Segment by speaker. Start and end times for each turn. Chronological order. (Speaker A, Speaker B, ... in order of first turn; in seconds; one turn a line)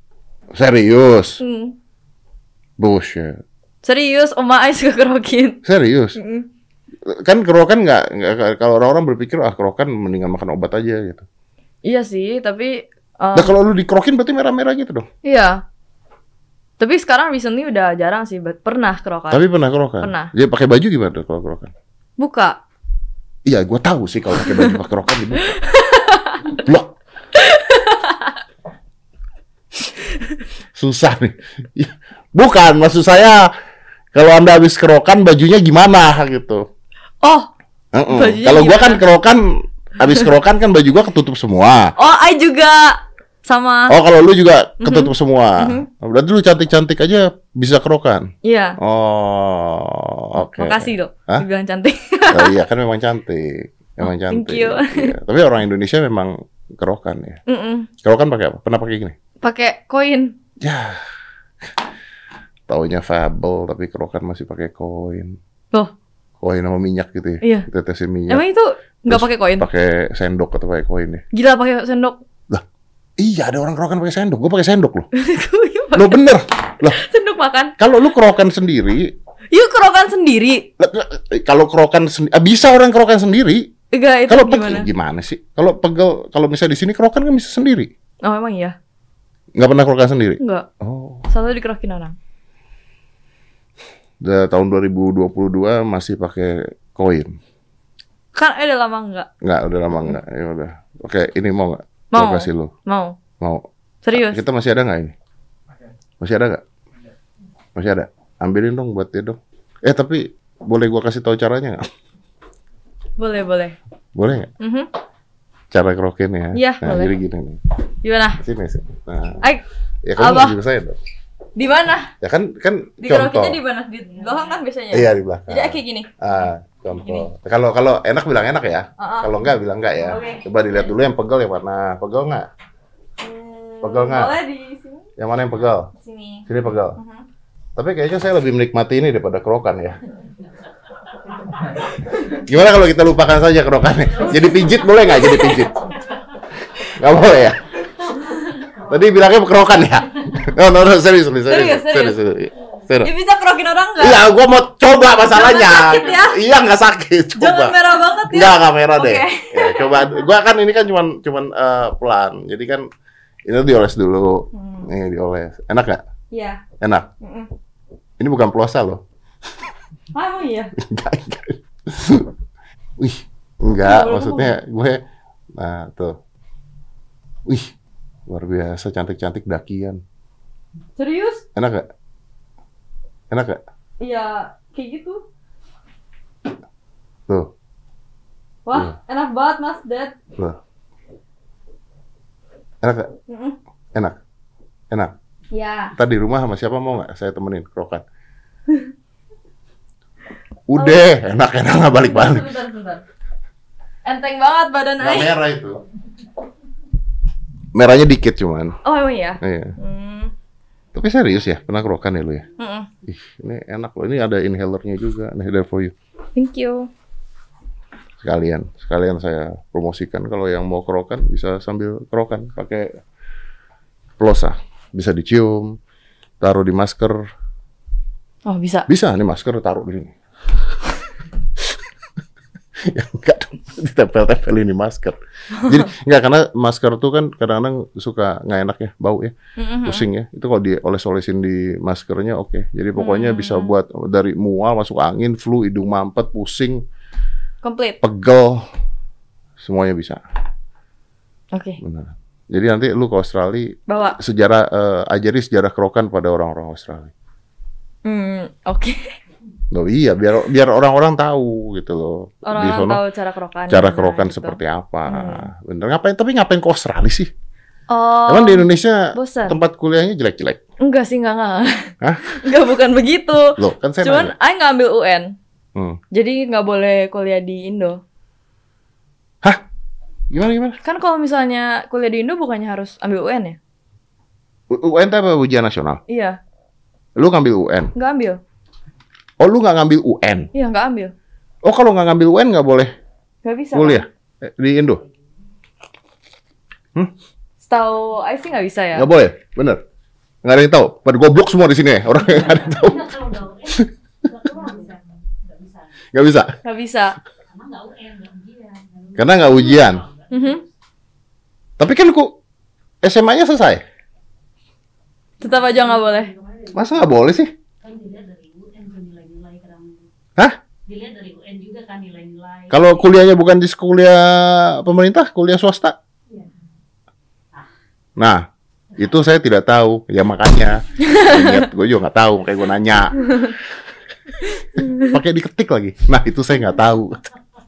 Speaker A: 0.5-1.4
Speaker B: 1.4-1.8
Speaker A: 2.8-3.4
Speaker B: 3.8-5.6
Speaker A: 5.6-6.2
Speaker B: 6.2-6.5
Speaker A: 7.1-11.2
Speaker B: 11.8-13.5
Speaker A: 13.3-15.1
Speaker B: 15.2-15.6
Speaker B: 16.8-19.4
Speaker A: 19.3-21.7
Speaker B: 20.0-20.3
Speaker B: 22.2-22.6
Speaker A: 23.4-25.5
Speaker B: 25.4-26.4
Speaker A: 26.5-26.9
Speaker B: 27.3-28.4
Speaker A: 30.7-33.5
Speaker A: 34.1-36.6
Speaker B: 37.2-37.5
Speaker A: 37.9-39.4
Speaker B: 38.1-39.0
Speaker A: 40.0-41.9
Speaker B: 42.0-43.9
Speaker A: 43.9-51.4
Speaker B: 44.8-45.9
Speaker B: 48.4-48.8
Speaker B: 50.6-52.5
Speaker A: 52.3-57.4
Speaker B: 54.0-55.1
Speaker B: 57.5-57.9
Speaker A: 58.0-59.1
Speaker B: 59.4-60.4
Speaker A: 60.6-61.0
Speaker A: 62.7-65.4
Speaker A: 66.4-68.4
Speaker B: 67.4-67.7
Speaker B: 68.3-69.7
Speaker A: 69.1-71.2
Speaker B: 71.3-72.2
Speaker A: 73.2-75.1
Speaker B: 75.1-76.2
Speaker A: 75.9-77.0
Speaker B: 76.8-77.7
Speaker A: 77.8-79.1
Speaker B: 79.5-80.7
Speaker A: 80.8-83.7
Speaker B: 83.9-84.9
Speaker A: 84.3-87.9
Speaker B: 88.2-88.8
Speaker A: 89.6-91.3
Speaker B: 90.4-90.7
Speaker B: 91.3-92.2
Speaker A: 94.2-97.3
Speaker B: 98.3-99.3
Speaker A: 99.4-102.7
Speaker B: 102.1-103.2
Speaker B: 104.0-104.4
Speaker A: 104.2-105.1
Speaker A: 106.2-106.6
Speaker A: 107.7-111.8
Speaker B: 113.2-113.8
Speaker A: 114.1-114.5
Speaker B: 114.6-114.9
Speaker A: 115.7-117.6
Speaker B: 116.5-117.1
Speaker B: 118.0-118.4
Speaker A: 118.4-119.4
Speaker A: 120.0-121.0
Speaker B: 120.2-120.6
Speaker B: 121.5-122.1
Speaker A: 122.2-123.6
Speaker B: 123.0-126.1
Speaker A: 124.9-132.5
Speaker B: 129.0-129.4
Speaker B: 130.0-130.4
Speaker B: 133.2-135.0
Speaker A: 133.8-134.3
Speaker A: 135.2-135.9
Speaker B: 135.9-137.2
Speaker A: 136.5-137.0
Speaker A: 137.8-140.0
Speaker A: 142.2-145.8
Speaker B: 144.3-145.7
Speaker A: 146.7-147.7
Speaker A: 148.8-153.1
Speaker B: 151.5-152.2
Speaker B: 153.0-154.2
Speaker A: 154.0-157.7
Speaker B: 155.3-156.4
Speaker B: 157.4-160.2
Speaker A: 158.3-162.8
Speaker A: 163.5-166.0
Speaker B: 164.5-164.9
Speaker B: 166.3-166.6
Speaker A: 166.8-167.1
Speaker B: 167.2-167.5
Speaker A: 168.2-169.0
Speaker B: 170.1-170.7
Speaker A: 170.8-172.3
Speaker A: 173.0-175.0
Speaker B: 173.8-174.6
Speaker A: 175.6-176.2
Speaker A: 178.3-180.0
Speaker B: 180.9-181.4
Speaker A: 181.5-181.9
Speaker A: 183.3-183.6
Speaker B: 184.0-185.2
Speaker B: 188.6-190.1
Speaker A: 192.8-193.1
Speaker B: 193.3-193.6
Speaker B: 195.5-195.9
Speaker A: 195.9-198.0
Speaker A: 200.7-202.5
Speaker B: 200.7-201.0
Speaker B: 202.1-203.0
Speaker B: 204.0-205.3
Speaker A: 205.0-205.8
Speaker A: 207.7-208.8
Speaker B: 208.8-210.3
Speaker A: 209.4-209.8
Speaker A: 210.9-212.5
Speaker B: 212.6-212.9
Speaker A: 213.1-215.9
Speaker B: 216.3-216.9
Speaker A: 218.2-223.0
Speaker A: 224.2-225.8
Speaker A: 226.4-227.3
Speaker B: 228.4-228.9
Speaker A: 228.9-230.1
Speaker A: 232.9-246.8
Speaker B: 235.6-235.8
Speaker B: 239.6-240.1
Speaker B: 242.9-243.7
Speaker B: 247.6-248.0
Speaker A: 248.0-248.6
Speaker A: 249.6-250.2
Speaker B: 251.5-251.8
Speaker A: 251.8-257.1
Speaker B: 253.9-254.2
Speaker B: 258.0-259.1
Speaker A: 259.7-263.0
Speaker B: 262.4-265.5
Speaker A: 263.7-267.3
Speaker B: 267.9-269.6
Speaker A: 268.3-270.6
Speaker B: 270.8-275.4
Speaker A: 272.0-272.4
Speaker A: 273.6-274.3
Speaker B: 276.1-278.0
Speaker A: 280.3-280.8
Speaker B: 280.8-283.6
Speaker A: 284.7-286.0
Speaker B: 286.1-286.4
Speaker A: 287.1-287.9
Speaker B: 287.9-288.4
Speaker A: 289.4-290.5
Speaker B: 290.5-291.1
Speaker A: 291.6-292.9
Speaker B: 293.4-294.0
Speaker A: 293.7-295.0
Speaker B: 297.6-299.1
Speaker A: 298.9-299.8
Speaker A: 300.4-303.9
Speaker C: 302.3-305.9
Speaker A: 306.1-306.6
Speaker B: 306.6-307.2
Speaker C: 307.5-310.7
Speaker A: 309.1-310.0
Speaker B: 310.3-310.6
Speaker A: 311.8-312.4
Speaker A: 313.0-313.8
Speaker B: 315.4-316.3
Speaker C: 315.4-317.0
Speaker A: 316.7-317.5
Speaker C: 317.8-320.0
Speaker C: 320.9-323.1
Speaker A: 322.7-325.9
Speaker A: 328.2-328.5
Speaker A: 329.0-333.6
Speaker B: 331.0-331.7
Speaker B: 334.7-335.1
Speaker A: 334.8-337.2